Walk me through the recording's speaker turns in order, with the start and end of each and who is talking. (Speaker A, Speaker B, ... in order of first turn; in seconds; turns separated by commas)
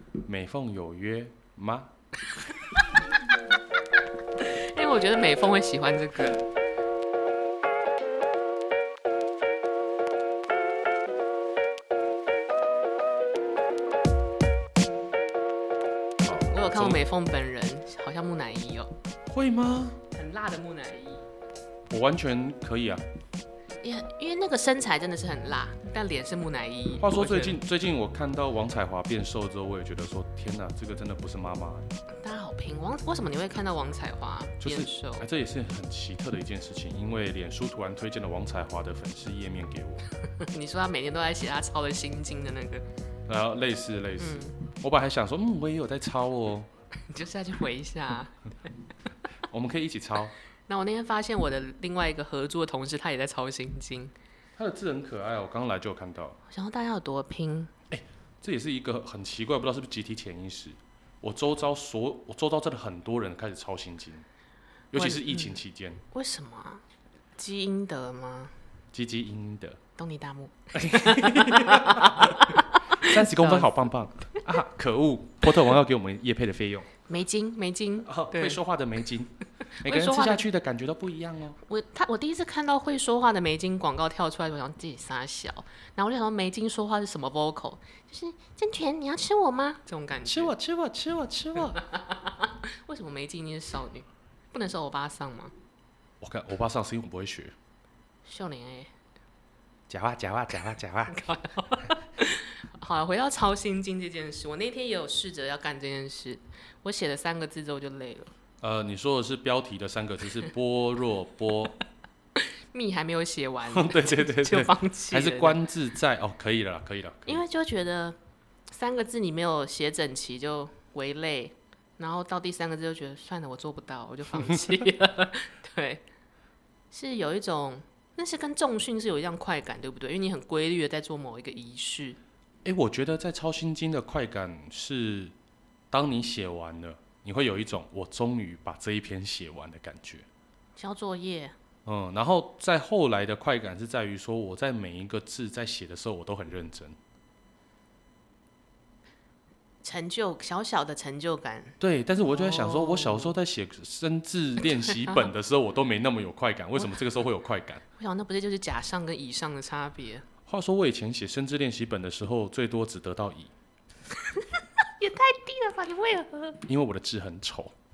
Speaker A: 0.2-1.9, Speaker B: 4.4-6.5, Speaker A: 16.2-17.0, Speaker B: 16.5-18.9, Speaker A: 19.3-20.0, Speaker B: 20.1-21.2, Speaker A: 21.9-23.0, Speaker B: 23.8-27.6, Speaker A: 27.0-31.9, Speaker B: 32.2-35.3, Speaker A: 34.6-40.0, Speaker B: 40.3-42.8, Speaker A: 43.3-46.7, Speaker B: 44.2-44.6, Speaker B: 47.1-48.4, Speaker A: 49.5-50.3, Speaker B: 50.7-54.1, Speaker A: 54.6-56.4, Speaker B: 56.5-57.7, Speaker A: 57.9-64.3, Speaker A: 64.9-66.0, Speaker B: 65.0-65.6, Speaker B: 66.1-66.8, Speaker B: 67.4-68.5, Speaker A: 68.9-69.8, Speaker B: 70.0-73.7, Speaker A: 70.7-76.9, Speaker B: 77.1-78.6, Speaker A: 78.0-81.6, Speaker B: 79.8-80.4, Speaker B: 81.7-90.5, Speaker A: 90.3-91.8, Speaker B: 91.8-95.5, Speaker A: 96.2-97.5, Speaker B: 98.3-98.9, Speaker A: 99.9-101.2, Speaker B: 101.1-108.3, Speaker A: 108.6-111.8, Speaker B: 112.4-115.6, Speaker A: 113.7-117.4, Speaker B: 117.3-118.2, Speaker B: 118.7-126.0, Speaker B: 126.9-132.2, Speaker A: 132.6-135.3, Speaker A: 135.9-140.3, Speaker B: 140.8-141.6, Speaker A: 141.8-147.0, Speaker B: 149.8-151.8, Speaker A: 151.8-157.8, Speaker B: 152.3-153.3, Speaker B: 158.0-160.3, Speaker A: 160.5-163.5, Speaker B: 165.0-166.6, Speaker A: 166.7-167.7